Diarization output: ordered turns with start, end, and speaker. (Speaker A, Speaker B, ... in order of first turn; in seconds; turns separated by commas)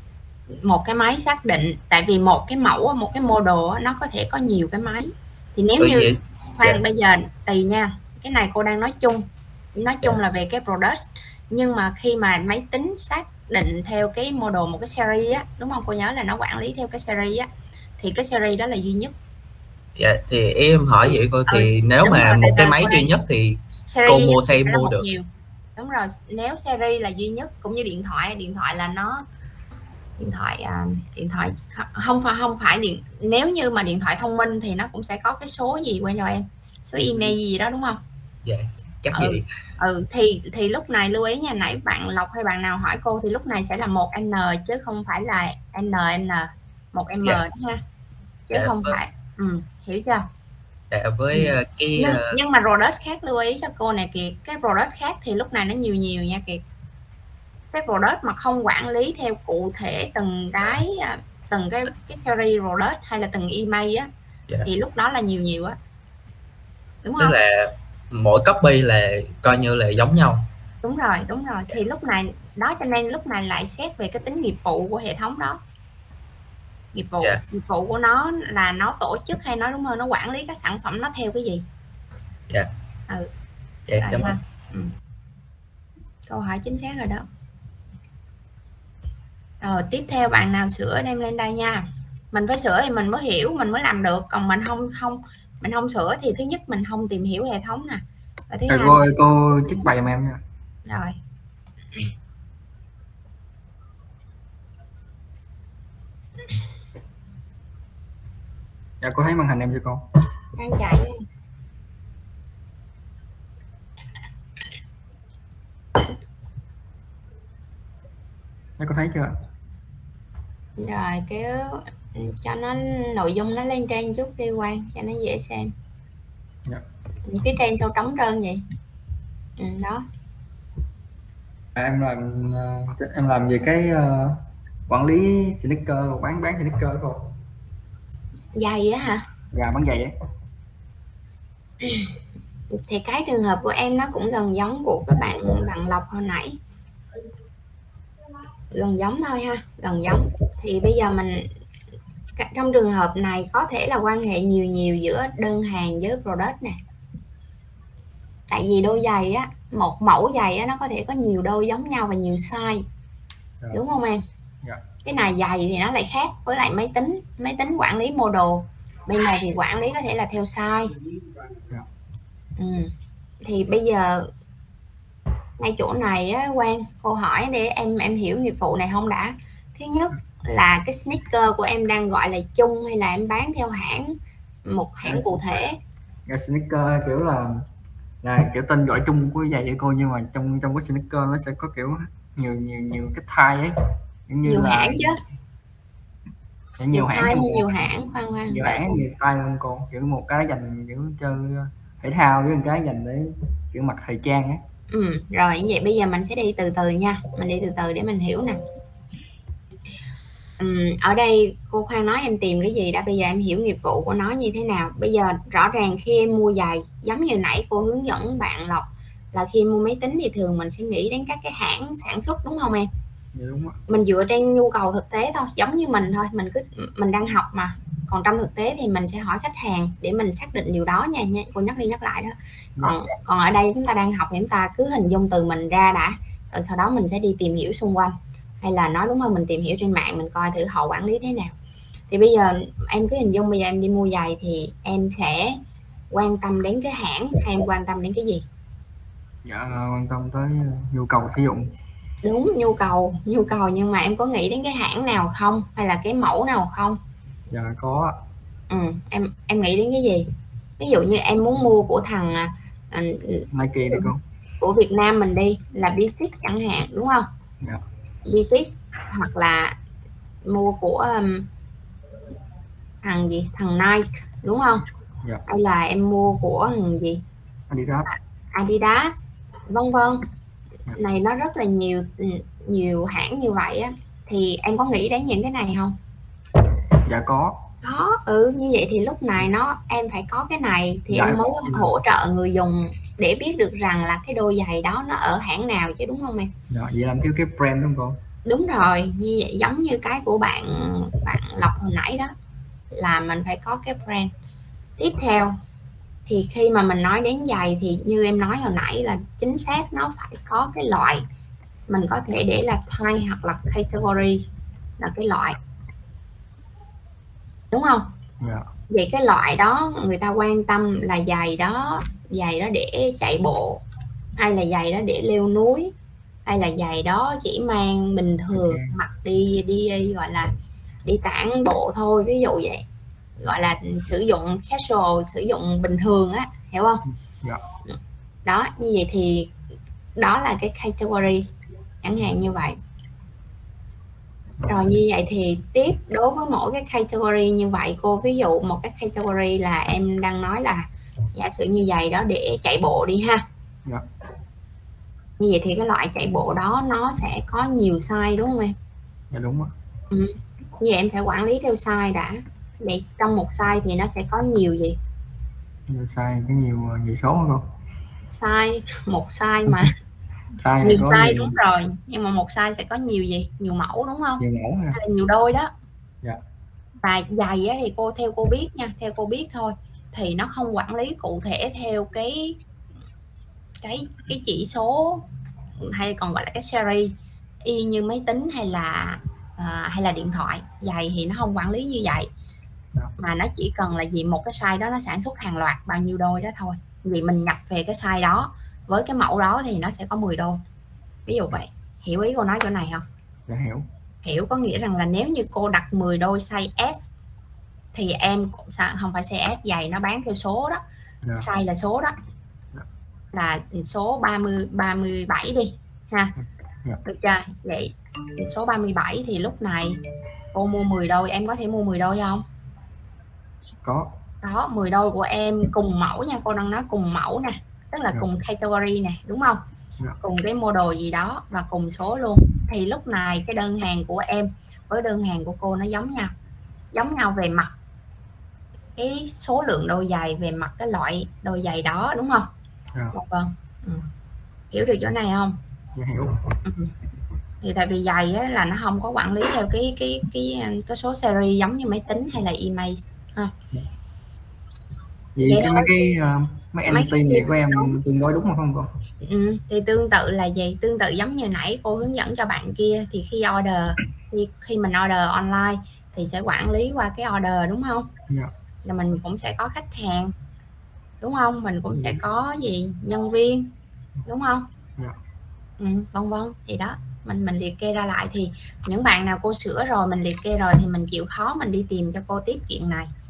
Speaker A: 0.6-17.5, Speaker B: 5.8-6.8, Speaker A: 18.0-19.1, Speaker B: 19.9-25.0, Speaker A: 21.4-23.1, Speaker A: 23.9-29.2, Speaker A: 30.2-38.0, Speaker B: 38.4-39.5, Speaker A: 39.1-47.8, Speaker A: 48.5-50.2, Speaker B: 48.5-49.0, Speaker B: 50.9-52.4, Speaker A: 51.3-56.6, Speaker A: 57.7-64.1, Speaker A: 64.6-65.8, Speaker A: 67.0-67.4, Speaker B: 67.2-70.5, Speaker A: 70.8-75.6, Speaker A: 76.9-81.6, Speaker B: 83.9-84.3, Speaker A: 84.0-84.9, Speaker A: 86.2-87.2, Speaker A: 89.6-99.0, Speaker C: 98.7-100.4, Speaker A: 100.9-101.2, Speaker C: 109.0-110.0, Speaker A: 110.5-111.2, Speaker C: 118.8-119.4, Speaker A: 120.8-125.7, Speaker A: 127.2-128.6, Speaker A: 129.6-130.0, Speaker C: 131.8-137.3, Speaker A: 138.6-139.2, Speaker C: 139.5-140.1, Speaker A: 141.8-142.1, Speaker A: 142.7-146.6, Speaker A: 148.7-151.5, Speaker A: 152.4-156.8, Speaker A: 158.5-162.8, Speaker A: 163.7-164.2, Speaker A: 165.0-170.9, Speaker A: 172.6-172.9, Speaker A: 173.4-174.3, Speaker A: 175.6-185.8, Speaker C: 186.3-187.6, Speaker C: 188.2-193.8, Speaker C: 194.3-195.1, Speaker A: 194.4-195.2, Speaker C: 196.8-197.7, Speaker A: 196.9-199.0, Speaker C: 198.5-204.6, Speaker A: 204.9-208.6, Speaker A: 210.6-222.9, Speaker C: 223.3-223.8, Speaker A: 223.9-241.5, Speaker A: 242.1-248.4, Speaker C: 249.4-251.7, Speaker A: 252.2-257.0, Speaker C: 257.5-258.2, Speaker A: 258.7-260.3, Speaker A: 260.8-264.1, Speaker C: 263.5-264.2, Speaker A: 264.6-267.3, Speaker A: 268.2-269.8, Speaker A: 270.4-271.5, Speaker A: 273.0-274.9, Speaker A: 275.5-277.2, Speaker C: 277.7-278.1, Speaker A: 278.1-279.1, Speaker A: 279.7-280.2, Speaker A: 280.9-286.0, Speaker C: 287.0-287.6, Speaker A: 287.8-296.5, Speaker C: 291.1-291.9, Speaker C: 296.7-298.2, Speaker A: 298.4-302.3, Speaker A: 302.9-304.3, Speaker A: 305.0-305.6, Speaker A: 306.3-311.2, Speaker A: 311.9-314.4, Speaker A: 315.0-315.6, Speaker A: 317.7-318.1, Speaker C: 318.4-318.7, Speaker A: 318.9-323.8, Speaker A: 324.4-325.9, Speaker A: 326.4-330.5, Speaker C: 328.5-328.9, Speaker A: 331.0-332.8, Speaker A: 333.4-337.0, Speaker A: 337.9-339.5, Speaker A: 340.1-341.5, Speaker A: 342.0-342.8, Speaker C: 344.6-344.9, Speaker A: 344.6-353.4, Speaker A: 355.4-358.8, Speaker C: 359.3-359.7, Speaker A: 360.1-365.0, Speaker C: 365.9-367.7, Speaker A: 368.3-369.9, Speaker C: 370.6-371.6, Speaker A: 370.8-375.7, Speaker C: 374.4-375.0, Speaker A: 377.0-382.6, Speaker A: 383.8-385.2, Speaker A: 385.8-392.3, Speaker A: 393.2-400.6, Speaker A: 401.3-403.0, Speaker C: 403.5-403.9, Speaker A: 404.2-407.1, Speaker A: 407.9-410.8, Speaker A: 411.4-412.1, Speaker A: 413.3-416.3, Speaker C: 416.4-417.0, Speaker A: 417.0-420.0, Speaker A: 420.5-422.4, Speaker C: 423.8-424.1, Speaker A: 424.4-429.6, Speaker A: 430.2-436.3, Speaker A: 436.9-437.7, Speaker A: 439.0-442.5, Speaker A: 443.1-444.1, Speaker A: 444.7-445.6, Speaker C: 445.9-446.4, Speaker A: 446.6-446.9, Speaker A: 447.6-453.5, Speaker C: 455.4-458.9, Speaker A: 455.4-455.9, Speaker A: 456.9-458.0, Speaker A: 459.2-468.1, Speaker A: 468.8-470.3, Speaker A: 471.2-473.7, Speaker A: 474.2-474.7, Speaker A: 475.8-483.1